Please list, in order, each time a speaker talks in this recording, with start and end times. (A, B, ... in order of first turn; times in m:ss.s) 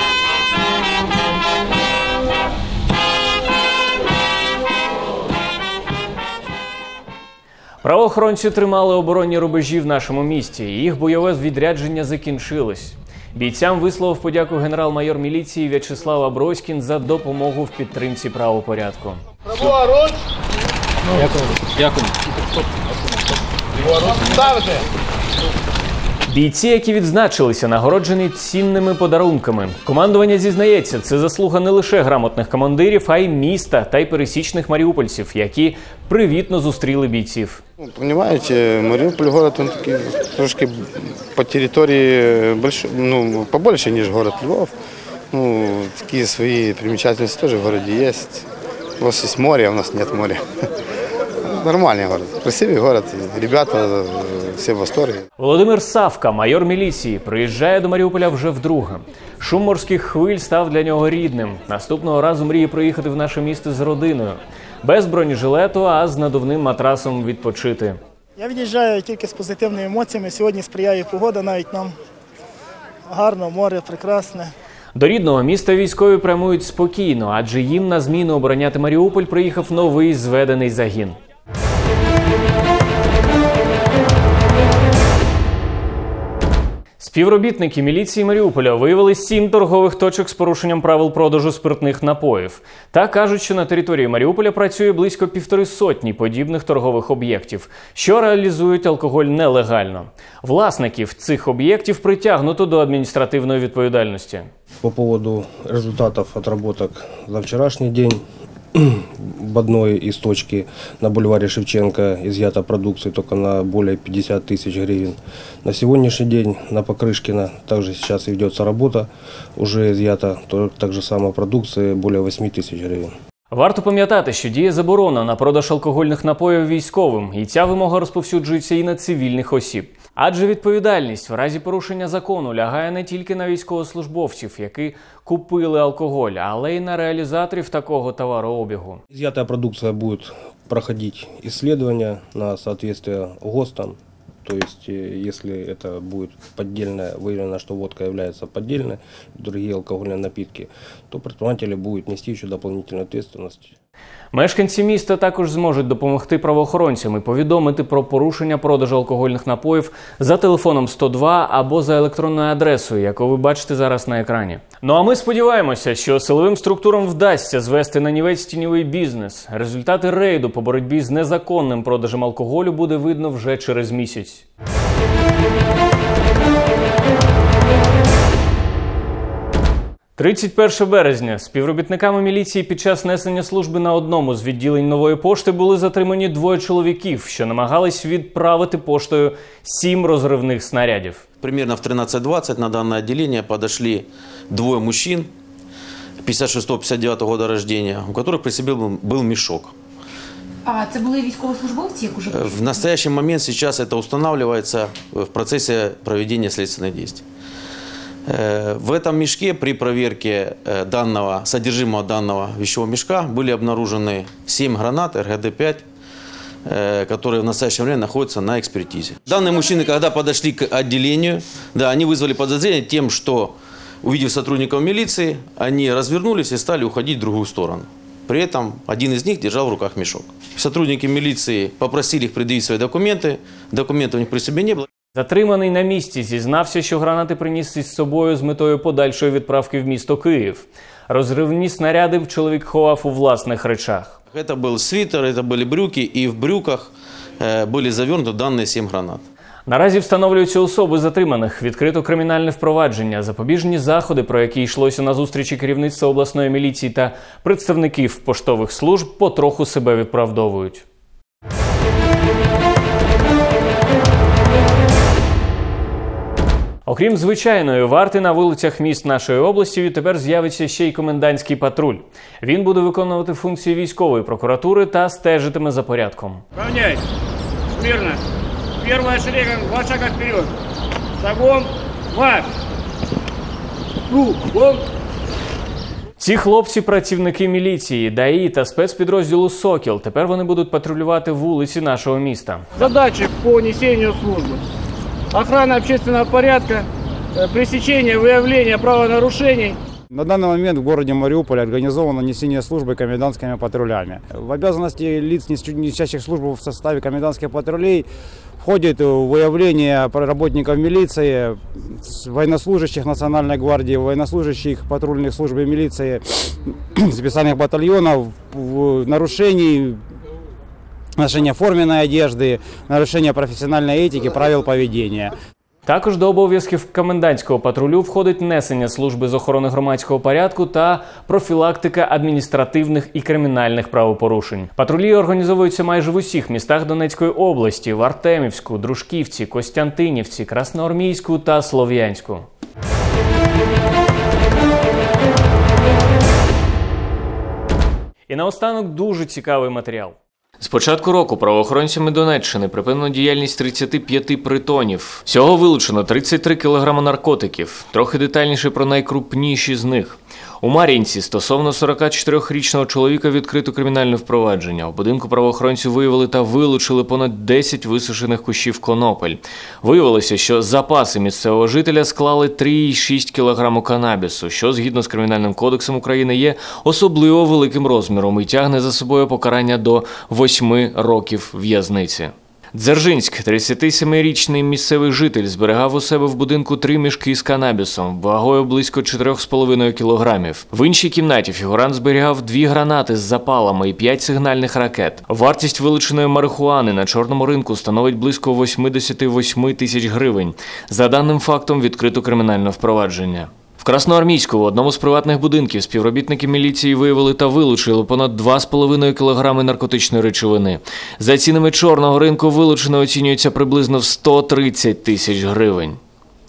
0:07.8-0:19.2 A
0:26.3-0:37.6 A
0:37.8-0:44.7 B
0:45.3-0:48.4 B
0:49.0-0:50.4 B
0:51.5-0:55.2 B
0:55.4-1:08.0 A
1:08.4-1:11.9 C
1:13.1-1:14.5 C
1:15.0-1:21.2 A
1:27.0-1:44.5 A
1:44.8-1:48.2 D
1:48.8-2:03.1 D
2:03.5-2:19.0 A
2:19.1-2:33.7 D
2:34.3-2:54.5 A
3:00.2-3:11.2 A
3:11.4-3:15.3 E
3:16.2-3:19.7 E
3:20.6-3:22.8 F
3:22.3-3:27.2 E
3:28.3-3:35.8 E
3:36.7-3:54.9 E
3:55.1-4:04.2 A
4:04.3-4:09.2 E
4:09.7-4:20.8 A
4:26.9-4:36.4 A
4:36.6-4:37.0 G
4:37.8-4:38.2 G
4:38.8-4:40.5 G
4:41.2-4:42.5 G
4:44.1-4:44.8 G
4:46.2-4:52.7 A
4:52.8-4:54.6 G
4:55.3-4:59.8 G
5:00.1-5:08.0 H
5:08.6-5:20.0 H
5:21.2-5:25.3 H
5:25.9-5:42.5 A
5:48.3-6:56.0 A